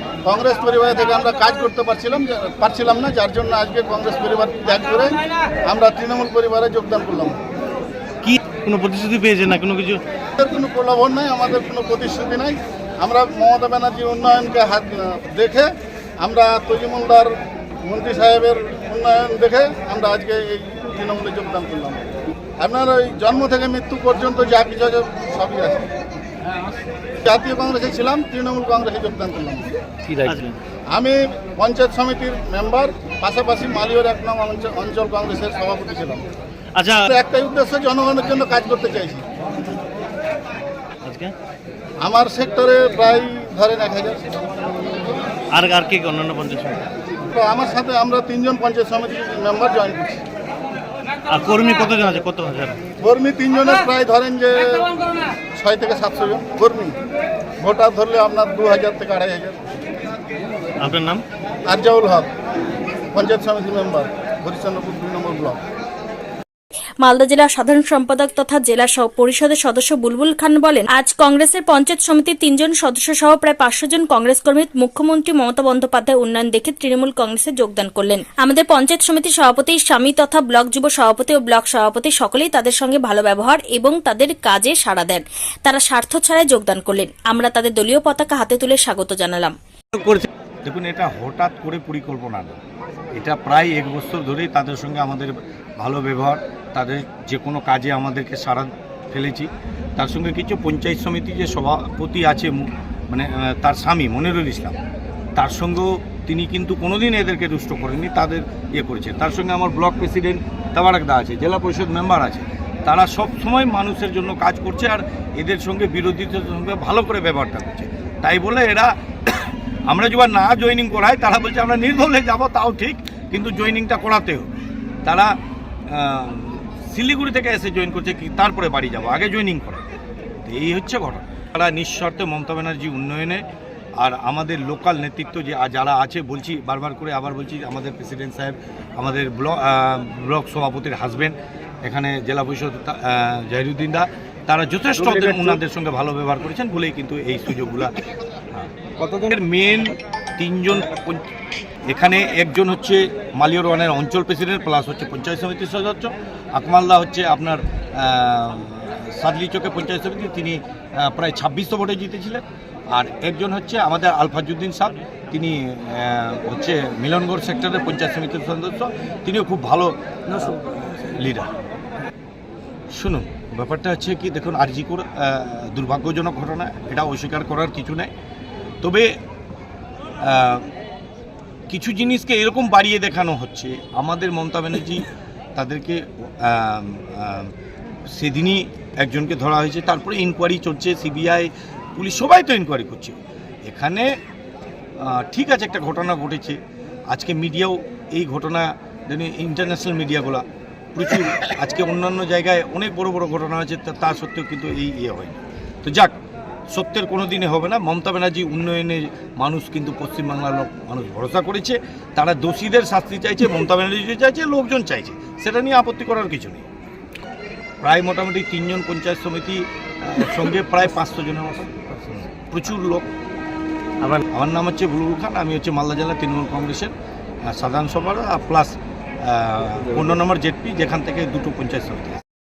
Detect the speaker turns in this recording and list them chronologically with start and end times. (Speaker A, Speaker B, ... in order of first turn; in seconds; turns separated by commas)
Speaker A: 0.2-7.4, Speaker B: 8.2-10.0, Speaker A: 10.4-22.0, Speaker A: 22.6-25.9, Speaker A: 27.2-29.7, Speaker B: 30.2-30.6, Speaker A: 30.9-36.2, Speaker B: 36.8-37.1, Speaker A: 37.1-39.2, Speaker B: 41.0-41.3, Speaker A: 42.0-44.3, Speaker B: 45.5-46.8, Speaker A: 47.3-50.2, Speaker B: 51.3-52.8, Speaker A: 53.0-54.9, Speaker A: 55.6-57.0, Speaker A: 57.6-59.6, Speaker B: 60.8-61.2, Speaker A: 61.7-62.3, Speaker A: 63.1-65.6, Speaker C: 67.0-89.5, Speaker D: 90.6-92.6, Speaker D: 93.1-104.8, Speaker D: 105.4-124.5, Speaker D: 125.0-125.4, Speaker D: 125.9-129.9, Speaker D: 130.4-133.4, Speaker D: 134.0-148.0, Speaker D: 148.5-151.3, Speaker D: 151.9-171.5, Speaker D: 172.9-178.1, Speaker D: 178.8-179.1, Speaker D: 180.2-180.7, Speaker D: 181.7-187.5, Speaker D: 188.1-194.1, Speaker D: 195.0-196.6, Speaker D: 197.1-206.2, Speaker D: 206.7-216.7, Speaker D: 217.8-223.1, Speaker D: 224.1-226.9, Speaker D: 227.5-232.2